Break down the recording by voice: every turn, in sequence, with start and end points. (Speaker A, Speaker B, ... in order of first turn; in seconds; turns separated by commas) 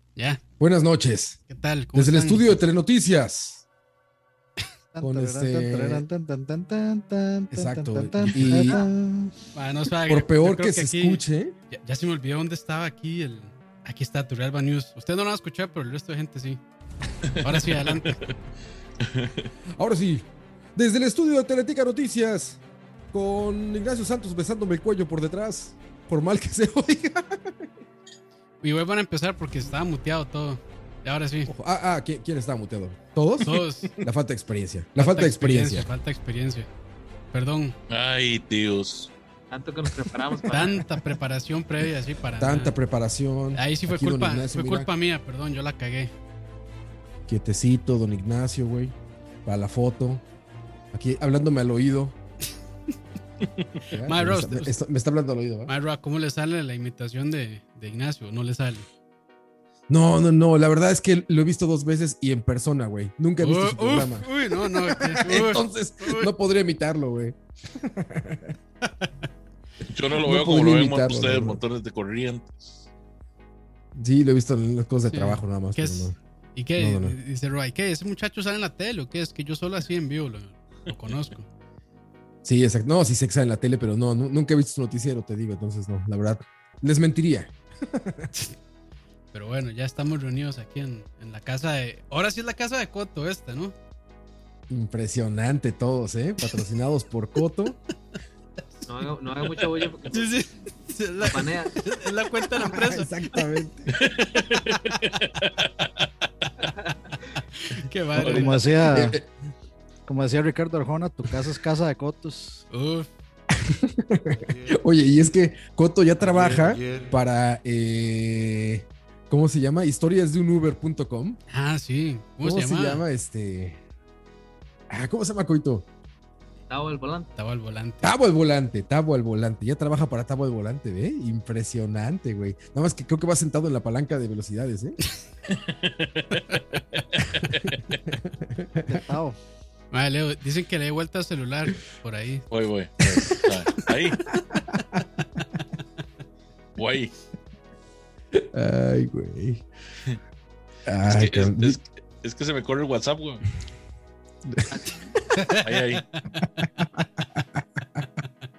Speaker A: 0.2-0.4, Speaker B: 0.6-1.4, Speaker A: 1.5-2.6, Speaker B: 1.9-3.6, Speaker C: 4.9-9.3, Speaker B: 5.0-6.1, Speaker B: 7.5-8.8, Speaker A: 8.3-8.8, Speaker A: 9.6-16.6, Speaker B: 10.1-11.6, Speaker D: 17.3-18.2, Speaker A: 17.4-18.3, Speaker D: 19.0-19.5, Speaker B: 19.8-22.6, Speaker B: 23.1-27.7, Speaker A: 28.6-31.5, Speaker B: 31.5-35.9, Speaker A: 33.4-33.9, Speaker A: 35.0-36.7, Speaker A: 37.3-37.8, Speaker D: 37.9-39.1, Speaker E: 39.5-40.9, Speaker A: 40.5-42.8, Speaker B: 42.4-44.9, Speaker A: 43.5-46.1, Speaker B: 47.3-49.0, Speaker B: 49.5-50.2, Speaker B: 50.9-52.1, Speaker B: 53.9-55.7, Speaker A: 54.0-54.8, Speaker A: 55.7-58.9, Speaker B: 59.9-68.6, Speaker A: 63.4-66.3, Speaker D: 69.9-72.9, Speaker B: 70.2-71.6, Speaker B: 74.0-76.2, Speaker A: 75.1-81.5, Speaker B: 76.8-77.2, Speaker B: 82.4-88.3, Speaker A: 89.3-93.8, Speaker B: 94.7-97.8, Speaker E: 98.9-100.3, Speaker A: 100.1-103.1, Speaker E: 101.2-101.8, Speaker B: 102.6-104.0, Speaker D: 104.0-105.9, Speaker A: 107.6-108.9, Speaker D: 108.2-108.6, Speaker C: 108.2-109.2, Speaker B: 108.9-109.3, Speaker C: 110.1-112.6, Speaker A: 112.7-113.1, Speaker B: 113.5-121.4, Speaker D: 116.4-116.8, Speaker A: 121.5-123.0, Speaker B: 122.4-123.8, Speaker B: 124.9-125.9, Speaker E: 126.7-127.3, Speaker A: 127.4-128.1, Speaker B: 128.0-135.0, Speaker D: 135.5-138.0, Speaker B: 138.1-139.0, Speaker C: 138.9-139.4, Speaker A: 139.9-142.5, Speaker D: 142.5-144.3, Speaker B: 144.3-145.1, Speaker D: 146.8-147.1, Speaker B: 148.3-149.7, Speaker B: 150.9-151.8, Speaker D: 151.1-153.5, Speaker E: 154.7-155.0, Speaker A: 155.4-156.2, Speaker D: 155.6-156.0, Speaker B: 156.4-157.6